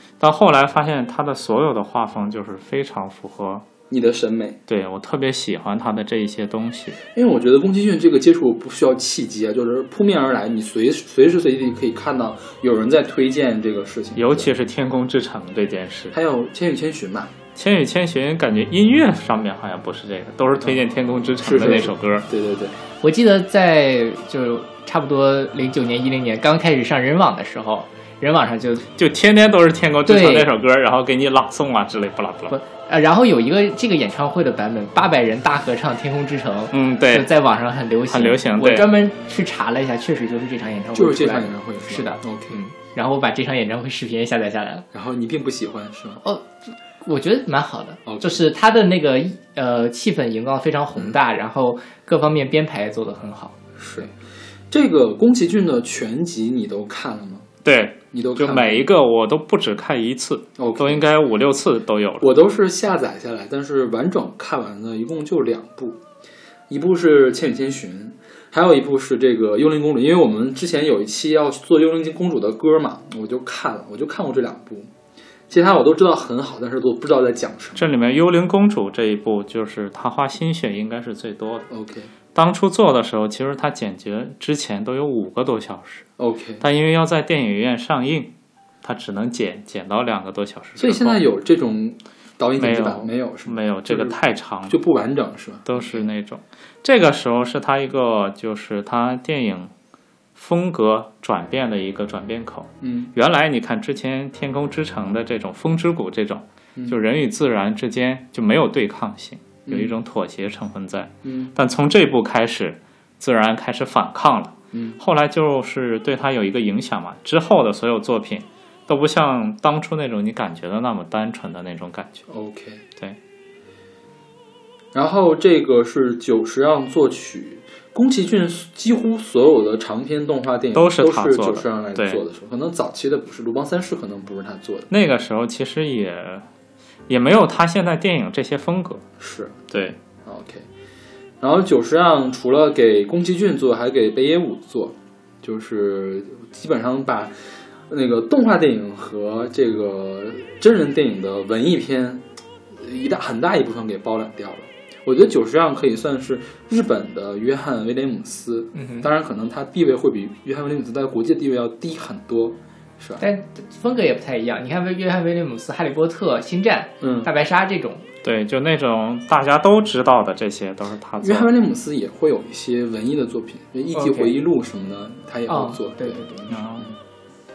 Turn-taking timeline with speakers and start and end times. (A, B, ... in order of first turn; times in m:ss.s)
0:00.2-0:03.7 A
0:03.9-0:04.6 B
0:04.7-0:07.0 A
0:07.1-0:14.5 B
0:14.2-0:16.2 A
0:16.1-0:17.3 B
0:17.6-0:22.3 A
0:21.4-0:22.8 B
0:23.0-0:28.9 C
0:29.0-0:32.6 A
0:30.1-0:30.5 C
0:32.5-0:44.8 C
0:36.7-0:37.3 A
0:38.1-0:38.9 A
0:40.9-0:42.6 B
0:44.9-0:46.2 B
0:46.2-0:53.6 C
0:48.1-0:48.4 B
0:53.8-0:54.1 B
0:54.7-0:57.5 B
0:57.6-1:02.4 A
0:58.1-0:58.9 B
1:00.6-1:01.1 B
1:02.2-1:06.0 B
1:06.7-1:14.9 B
1:15.5-1:17.9 B
1:17.8-1:21.7 A
1:21.7-1:22.1 B
1:22.4-1:26.1 A
1:26.2-1:26.6 B
1:26.6-1:31.2 A
1:30.8-1:36.1 B
1:32.6-1:34.8 A
1:35.7-1:39.7 A
1:40.4-2:02.2 A
1:42.8-1:43.1 B
1:49.7-1:50.0 B
1:51.2-1:51.5 B
1:54.7-1:55.0 B
2:02.3-2:02.8 B
2:04.9-2:14.9 B
2:10.8-2:12.2 A
2:14.9-2:16.5 A
2:17.1-2:19.0 A
2:19.2-2:19.6 B
2:19.7-2:20.0 A
2:20.2-2:20.7 B
2:21.4-2:27.3 B
2:27.9-2:43.2 B
2:38.8-2:39.1 C
2:43.2-2:48.1 C
2:47.0-2:47.3 B
2:48.2-2:51.5 A
2:51.2-2:57.0 B
2:54.0-2:54.3 C
2:55.5-2:56.3 C
2:56.5-2:56.9 A